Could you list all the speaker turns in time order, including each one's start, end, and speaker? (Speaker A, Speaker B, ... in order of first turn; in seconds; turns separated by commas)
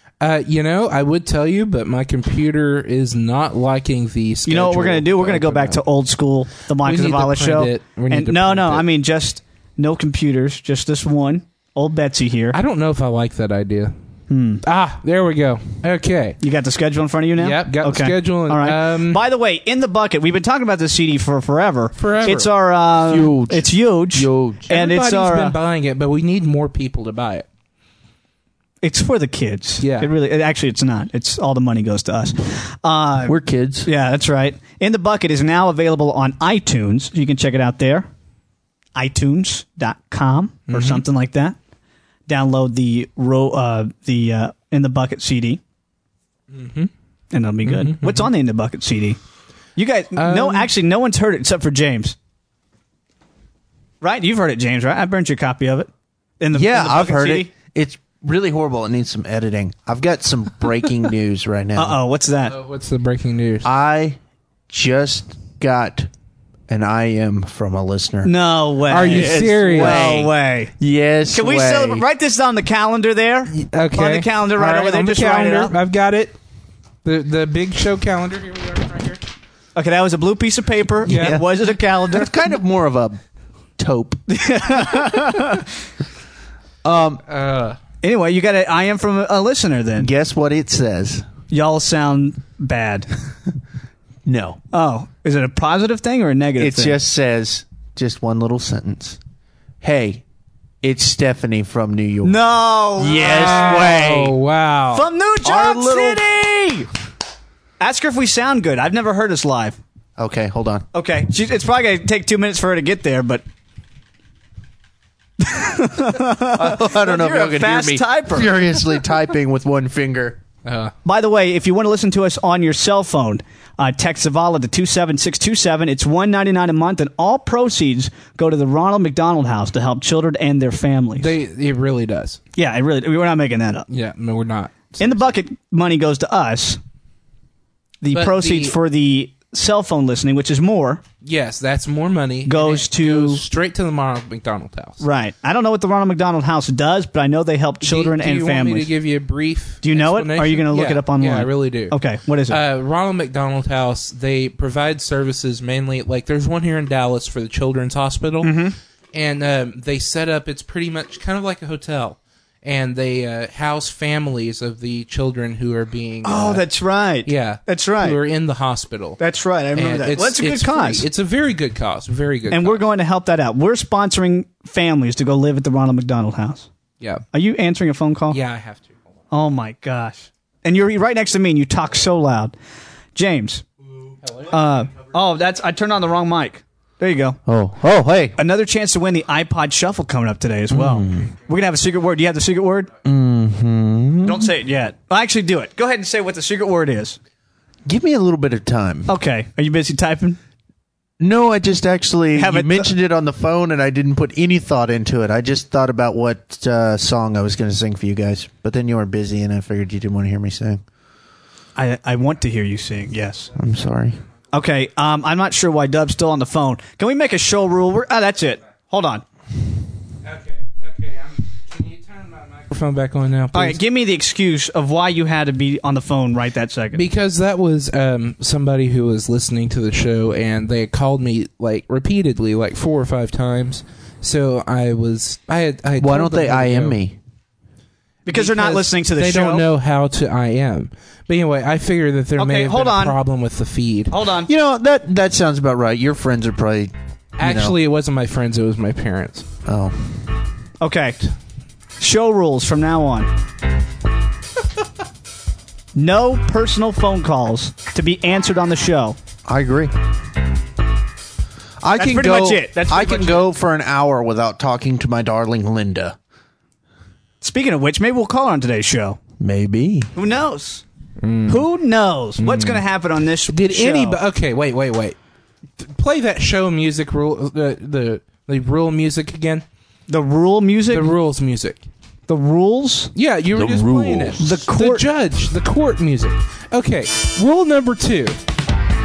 Speaker A: 0.2-5.8, Speaker B: 4.5-12.6, Speaker A: 6.8-8.9, Speaker A: 12.5-13.9, Speaker B: 14.3-14.6, Speaker A: 14.6-16.4, Speaker B: 16.4-25.6, Speaker A: 17.4-19.2, Speaker A: 22.0-22.5, Speaker C: 23.0-24.7, Speaker A: 24.7-27.5, Speaker B: 28.8-38.1, Speaker A: 29.8-30.1, Speaker C: 33.3-33.9, Speaker B: 39.0-41.6, Speaker A: 40.7-41.0, Speaker B: 42.3-45.6, Speaker A: 46.5-46.9, Speaker B: 47.3-49.2, Speaker A: 47.6-48.3, Speaker B: 49.8-52.2, Speaker A: 50.2-50.7, Speaker B: 54.0-57.5, Speaker C: 56.5-62.0, Speaker B: 61.8-62.5, Speaker A: 62.5-63.7, Speaker C: 63.6-64.2, Speaker C: 64.7-66.1, Speaker C: 66.7-68.3, Speaker B: 68.2-70.7, Speaker A: 68.9-70.2, Speaker C: 69.0-72.0, Speaker B: 71.3-75.8, Speaker A: 73.5-76.4, Speaker A: 77.0-79.2, Speaker B: 79.8-82.3, Speaker A: 81.0-81.5, Speaker C: 81.1-81.4, Speaker C: 82.0-83.2, Speaker C: 83.8-84.2, Speaker B: 84.3-85.7, Speaker C: 86.8-87.2, Speaker A: 87.3-87.8, Speaker B: 88.0-90.1, Speaker C: 90.0-91.2, Speaker B: 91.5-93.1, Speaker C: 94.3-94.6, Speaker B: 94.7-97.0, Speaker C: 96.6-99.2, Speaker C: 99.8-100.2, Speaker C: 100.8-102.4, Speaker B: 102.2-104.1, Speaker C: 103.0-104.3, Speaker A: 103.1-105.1, Speaker B: 104.9-106.9, Speaker C: 105.5-106.3, Speaker B: 107.8-109.8, Speaker C: 110.2-110.9, Speaker B: 110.9-113.4, Speaker B: 115.4-118.9, Speaker C: 116.5-120.4, Speaker A: 120.7-120.9, Speaker B: 121.0-131.3, Speaker A: 131.2-132.4, Speaker B: 132.6-133.9, Speaker A: 133.9-135.3, Speaker B: 135.0-136.8, Speaker B: 138.0-141.0, Speaker A: 138.1-138.8, Speaker A: 141.2-145.0, Speaker B: 142.4-143.4, Speaker B: 145.0-148.9, Speaker A: 147.8-152.0, Speaker B: 149.8-152.6, Speaker A: 152.5-158.6, Speaker B: 158.4-158.8, Speaker A: 159.1-166.7, Speaker B: 166.2-168.2, Speaker A: 167.2-169.2, Speaker B: 169.2-171.1, Speaker A: 169.8-172.8, Speaker B: 172.5-176.7, Speaker B: 177.3-178.4, Speaker A: 178.3-179.0, Speaker B: 179.3-182.6, Speaker B: 183.1-183.6, Speaker A: 184.2-184.5, Speaker B: 184.5-187.4, Speaker C: 187.5-188.4, Speaker B: 188.4-192.9, Speaker C: 190.7-191.2, Speaker C: 193.0-194.5, Speaker B: 194.2-197.2, Speaker C: 197.9-199.1, Speaker B: 199.1-200.4, Speaker C: 201.2-210.8, Speaker B: 202.3-202.9, Speaker B: 211.8-213.5, Speaker C: 213.6-214.2, Speaker B: 214.5-219.2, Speaker A: 220.2-223.8, Speaker B: 223.5-227.1, Speaker A: 226.9-237.0, Speaker C: 236.0-237.2, Speaker B: 238.3-239.7, Speaker A: 238.3-244.1, Speaker B: 242.4-243.2, Speaker B: 244.1-244.5, Speaker C: 244.5-247.8, Speaker A: 247.4-249.5, Speaker C: 249.7-250.1, Speaker B: 250.8-251.2, Speaker B: 252.0-253.3, Speaker B: 255.9-259.2, Speaker C: 259.5-259.9, Speaker C: 261.8-266.2, Speaker B: 262.0-263.5, Speaker B: 267.4-269.2, Speaker C: 269.4-270.1, Speaker B: 270.1-270.8, Speaker A: 271.2-271.7, Speaker B: 271.5-274.2, Speaker A: 272.4-272.8, Speaker A: 273.5-275.2, Speaker A: 275.8-279.6, Speaker B: 280.1-281.2, Speaker A: 280.9-281.9, Speaker B: 282.3-283.1, Speaker A: 283.1-288.4, Speaker C: 283.5-284.4, Speaker B: 284.4-285.1